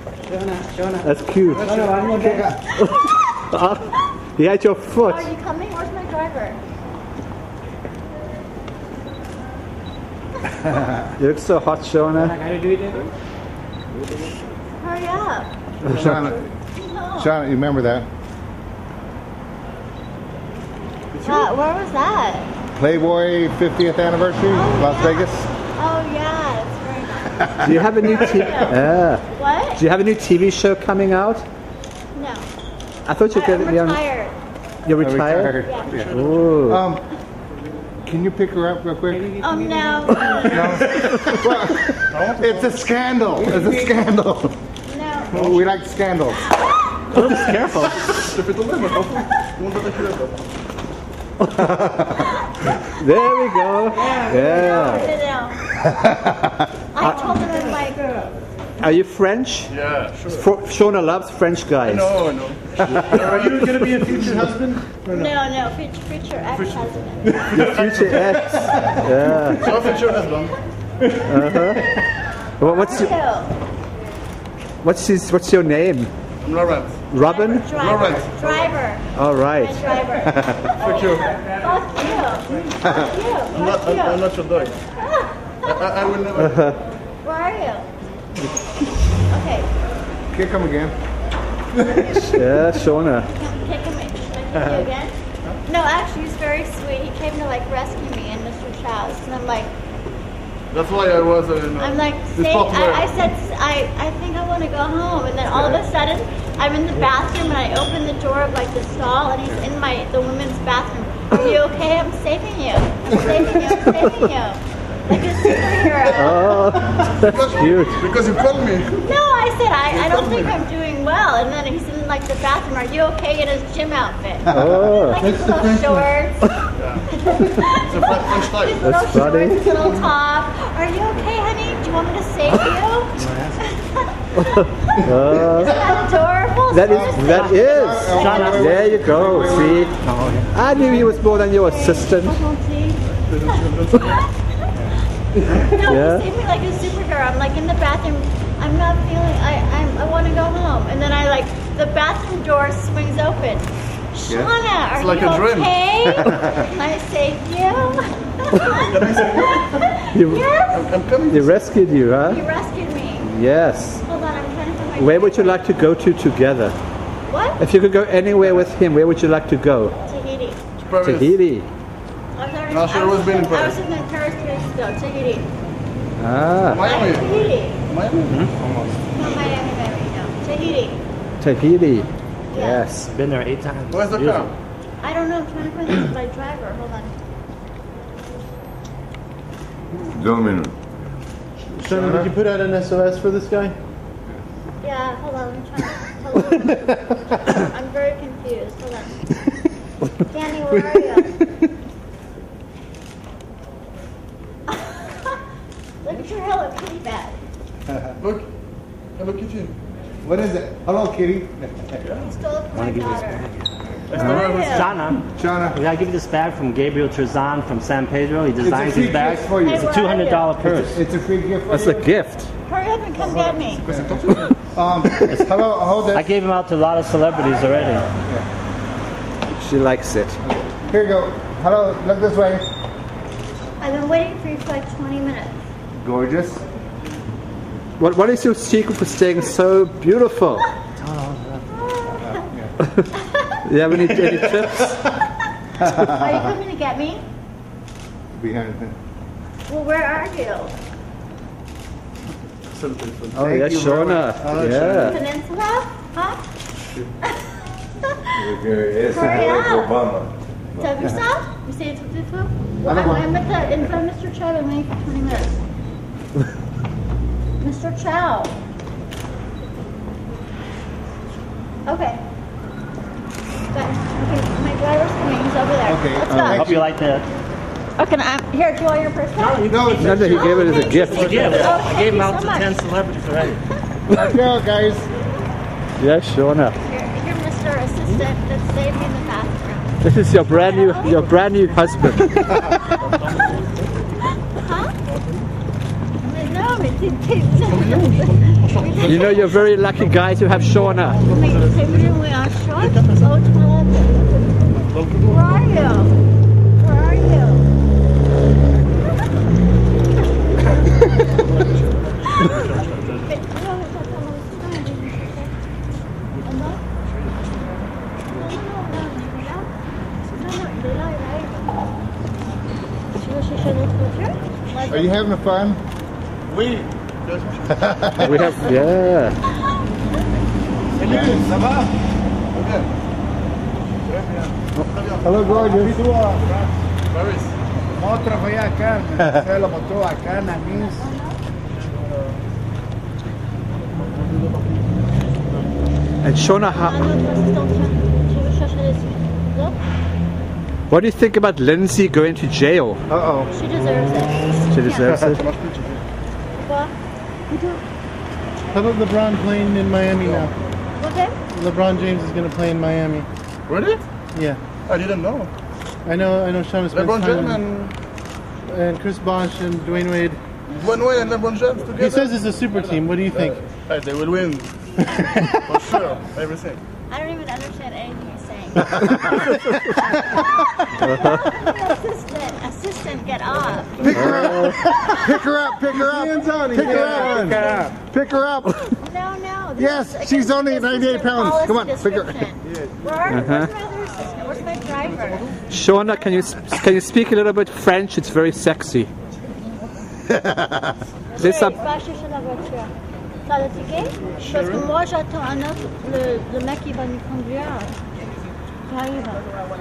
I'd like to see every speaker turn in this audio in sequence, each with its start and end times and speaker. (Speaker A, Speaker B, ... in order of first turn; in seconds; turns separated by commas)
Speaker A: 1.0-3.8, Speaker B: 1.5-2.0, Speaker C: 1.8-2.1, Speaker D: 2.2-2.6, Speaker A: 4.4-5.3, Speaker E: 5.0-6.6, Speaker A: 11.2-12.4, Speaker E: 14.8-15.5, Speaker D: 15.9-16.5, Speaker E: 16.7-17.4, Speaker D: 17.2-18.1, Speaker E: 21.2-22.5, Speaker D: 22.8-25.4, Speaker E: 24.4-28.8, Speaker A: 27.6-29.2, Speaker E: 29.4-29.8, Speaker A: 29.8-31.4, Speaker E: 32.1-32.4, Speaker A: 33.1-34.0, Speaker E: 33.3-34.3, Speaker A: 34.9-36.9, Speaker D: 35.0-35.6, Speaker E: 35.6-36.1, Speaker B: 35.9-36.4, Speaker D: 36.7-37.0, Speaker D: 38.0-39.2, Speaker E: 39.4-41.1, Speaker D: 40.5-41.7, Speaker B: 42.1-42.8, Speaker D: 42.4-44.6, Speaker E: 44.9-45.5, Speaker B: 45.3-45.6, Speaker D: 45.4-46.4, Speaker E: 46.3-47.3, Speaker A: 47.1-48.1, Speaker B: 48.3-50.4, Speaker A: 51.4-51.7, Speaker E: 52.2-52.8, Speaker A: 53.0-55.1, Speaker E: 54.0-55.6, Speaker E: 56.9-58.1, Speaker A: 57.0-57.3, Speaker A: 58.8-62.1, Speaker B: 59.7-60.4, Speaker B: 61.9-63.7, Speaker A: 62.9-63.8, Speaker F: 63.4-65.3, Speaker E: 65.1-67.4, Speaker B: 67.4-68.2, Speaker A: 67.5-69.9, Speaker B: 69.6-70.5, Speaker A: 71.2-71.8, Speaker A: 72.6-73.1, Speaker E: 72.6-73.5, Speaker A: 74.8-76.1, Speaker B: 76.4-77.0, Speaker A: 77.1-78.0, Speaker E: 77.2-84.2, Speaker B: 77.8-78.6, Speaker A: 79.2-79.8, Speaker B: 80.8-81.3, Speaker B: 83.5-84.7, Speaker E: 85.0-85.8, Speaker B: 85.7-86.6, Speaker A: 86.3-86.8, Speaker E: 87.2-87.9, Speaker E: 89.3-89.7, Speaker D: 90.3-91.0, Speaker A: 92.0-93.3, Speaker E: 93.2-95.1, Speaker E: 95.7-99.7, Speaker B: 100.7-103.1, Speaker E: 101.8-116.6, Speaker A: 116.1-118.1, Speaker B: 117.2-119.0, Speaker E: 119.0-124.5, Speaker A: 124.5-125.2, Speaker E: 125.0-134.5, Speaker B: 127.9-128.8, Speaker A: 128.8-129.6, Speaker G: 133.2-133.5, Speaker A: 134.5-135.8, Speaker E: 135.6-138.8, Speaker A: 136.7-139.9, Speaker G: 137.1-137.6, Speaker D: 137.8-139.6, Speaker G: 138.1-138.8, Speaker G: 140.0-140.5, Speaker A: 140.5-142.4, Speaker E: 140.7-144.3, Speaker B: 143.3-144.0, Speaker E: 145.5-160.9, Speaker A: 145.8-146.2, Speaker B: 155.0-155.8, Speaker B: 159.0-159.8, Speaker A: 160.1-160.4, Speaker B: 160.7-161.6, Speaker A: 161.3-162.4, Speaker E: 162.2-163.3, Speaker A: 163.2-164.0, Speaker E: 164.0-165.6, Speaker A: 165.0-166.8, Speaker E: 167.3-167.6, Speaker A: 167.6-169.9, Speaker E: 170.1-170.6, Speaker B: 170.8-171.3, Speaker A: 171.0-171.7, Speaker E: 172.3-175.5, Speaker B: 172.7-173.8, Speaker A: 176.2-176.9, Speaker B: 176.7-178.4, Speaker E: 176.8-177.8, Speaker G: 178.3-178.9, Speaker E: 179.1-181.0, Speaker A: 181.4-183.1, Speaker E: 182.5-182.9, Speaker G: 183.1-184.5, Speaker B: 183.9-184.5, Speaker E: 185.0-187.1, Speaker C: 190.3-190.7, Speaker F: 191.8-193.7, Speaker E: 194.8-199.1, Speaker E: 200.2-201.4, Speaker E: 204.7-205.3, Speaker E: 206.0-207.3, Speaker B: 208.2-208.5, Speaker B: 209.2-209.7, Speaker D: 210.2-211.9, Speaker E: 212.3-213.4, Speaker G: 212.7-213.5, Speaker B: 214.1-214.9, Speaker E: 214.1-214.9, Speaker G: 214.5-221.0, Speaker D: 215.3-215.8, Speaker D: 218.6-219.7, Speaker E: 219.5-220.5, Speaker D: 220.6-222.0, Speaker A: 221.7-222.5, Speaker E: 222.7-223.8, Speaker B: 223.9-224.3, Speaker D: 224.7-226.3, Speaker G: 226.0-228.1, Speaker A: 229.5-230.4, Speaker D: 230.5-232.6, Speaker E: 233.8-235.6, Speaker D: 236.0-236.6, Speaker A: 238.0-240.7, Speaker E: 241.7-242.5, Speaker E: 243.2-243.5, Speaker A: 243.6-245.0, Speaker E: 245.9-247.2, Speaker D: 248.3-248.9, Speaker E: 249.7-250.7, Speaker B: 252.7-253.4, Speaker A: 253.3-255.2, Speaker D: 253.4-254.4, Speaker E: 255.0-256.4, Speaker E: 257.2-257.5, Speaker E: 258.1-260.0, Speaker C: 258.9-260.2, Speaker E: 260.8-265.5, Speaker D: 262.9-263.2, Speaker E: 267.6-268.5, Speaker E: 271.9-272.2, Speaker E: 273.7-276.6, Speaker D: 275.9-276.8, Speaker C: 276.3-276.8, Speaker G: 276.5-277.2, Speaker E: 278.0-282.8, Speaker G: 279.4-279.9, Speaker A: 279.9-281.6, Speaker C: 280.1-281.2, Speaker G: 281.0-283.5, Speaker D: 284.3-285.1, Speaker A: 286.0-286.7, Speaker E: 286.8-289.9, Speaker A: 290.0-292.6, Speaker E: 290.5-291.4, Speaker E: 294.5-294.9, Speaker E: 296.2-299.6, Speaker B: 297.6-299.2, Speaker A: 299.0-301.2, Speaker B: 300.8-302.1, Speaker E: 301.2-304.4, Speaker B: 302.8-303.2, Speaker B: 304.9-305.4, Speaker E: 305.2-306.1, Speaker E: 306.8-307.6, Speaker B: 312.6-313.0, Speaker E: 313.3-315.5, Speaker E: 316.4-316.8, Speaker E: 318.3-319.7, Speaker E: 320.3-321.8, Speaker E: 323.1-325.2, Speaker D: 324.9-325.8, Speaker B: 326.5-328.5, Speaker A: 328.2-329.4, Speaker D: 331.1-331.5, Speaker B: 332.5-332.9, Speaker B: 334.1-335.2, Speaker D: 335.2-336.0, Speaker F: 335.6-336.7, Speaker B: 337.1-337.5, Speaker E: 340.9-341.4, Speaker A: 346.2-346.9, Speaker E: 346.5-349.8, Speaker A: 350.9-353.0, Speaker D: 353.1-353.4, Speaker E: 353.5-355.1, Speaker A: 354.7-355.4, Speaker B: 355.1-356.0, Speaker E: 356.6-356.9, Speaker F: 358.7-360.5, Speaker E: 361.0-361.4, Speaker F: 361.5-363.3, Speaker B: 363.7-364.0, Speaker F: 364.3-364.6, Speaker B: 364.9-365.5, Speaker F: 366.0-367.7, Speaker B: 366.9-367.9, Speaker F: 368.7-370.4, Speaker B: 370.7-372.4, Speaker F: 372.1-373.5, Speaker B: 373.3-374.7, Speaker B: 375.7-376.8, Speaker E: 377.1-386.0, Speaker A: 379.5-379.9, Speaker D: 384.1-388.7, Speaker A: 384.1-384.9, Speaker F: 385.9-388.0, Speaker E: 386.7-387.9, Speaker E: 389.0-395.5, Speaker D: 389.8-392.4, Speaker A: 393.3-393.7, Speaker A: 395.7-399.1, Speaker E: 401.4-402.9, Speaker A: 401.4-401.8, Speaker E: 403.4-407.9, Speaker B: 404.4-404.8, Speaker E: 408.9-409.4